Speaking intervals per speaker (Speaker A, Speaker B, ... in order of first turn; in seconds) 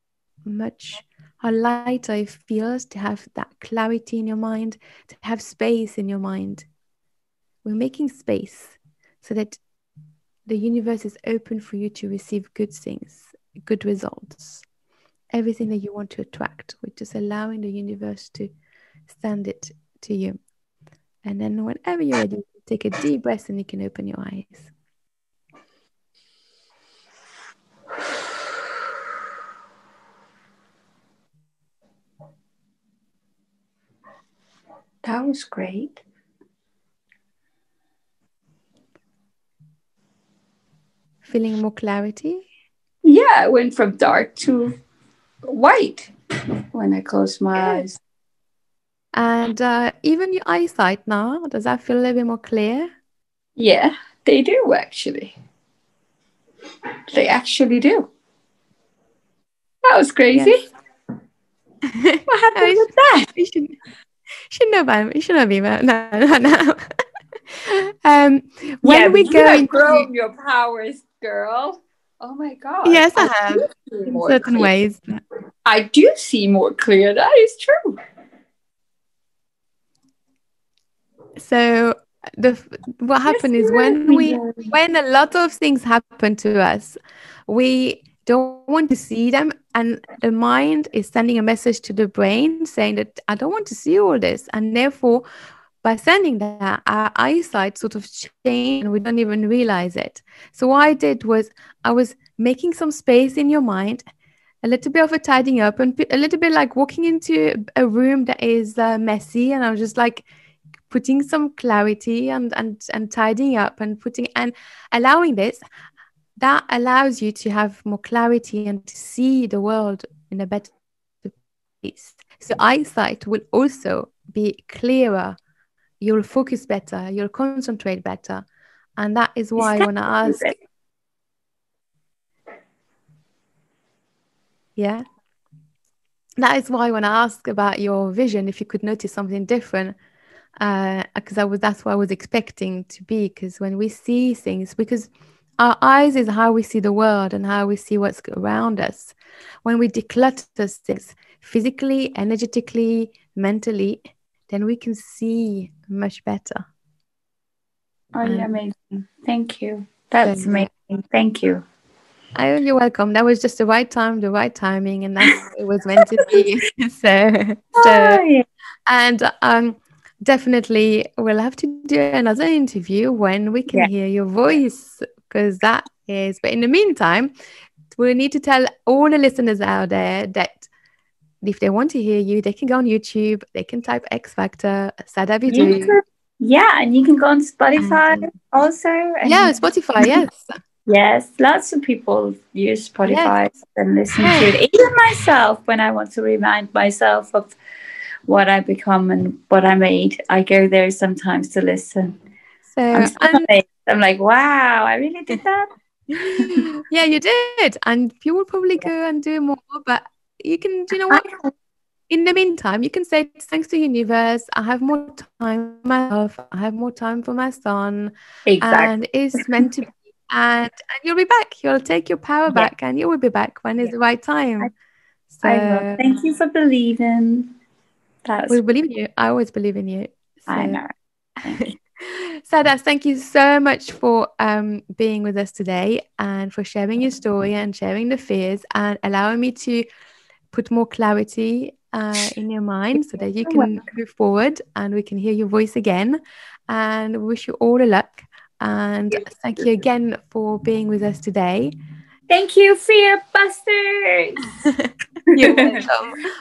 Speaker A: 0.4-6.7, 7.6-9.6, 10.4-14.6, 15.3-18.5, 19.1-20.4, 21.2-24.7, 41.3-42.5, 47.5-47.9, 49.1-52.9, 61.9-63.8, 64.5-66.8, 67.5-70.1, 72.8-75.0, 81.4-95.2, 95.8-104.0, 104.6-110.2, 110.9-115.6, 116.4-125.4, 126.0-128.4, 129.0-130.5, 134.8-135.0, 136.4-139.9, 140.6-149.1, 149.6-156.7, 158.2-158.5, 160.2-160.7, 162.3-168.2, 168.9-177.3, 177.9-180.7, 181.4-186.0, 187.8-188.3, 189.2-190.5, 193.1-193.3, 194.2-194.5, 202.7-203.4, 206.1-211.2, 212.1-224.7, 225.3-226.0, 228.5-230.8, 231.5-239.8, 240.5-251.7, 254.6-256.2
Speaker B: 35.0-36.0, 43.0-44.7, 45.5-46.1, 46.7-48.0, 53.6-55.3, 57.1-58.1, 59.9-60.6, 62.3-63.3, 68.8-74.7, 75.6-78.0, 83.3-84.7, 129.6-130.5, 158.1-161.6, 167.8-168.4, 185.5-190.1, 190.9-197.5, 198.3-202.2, 202.9-206.7, 211.1-211.5, 218.5-219.4, 225.4-227.5, 228.2-228.6, 230.5-230.9, 231.4-231.7, 252.3-254.5, 255.3-255.8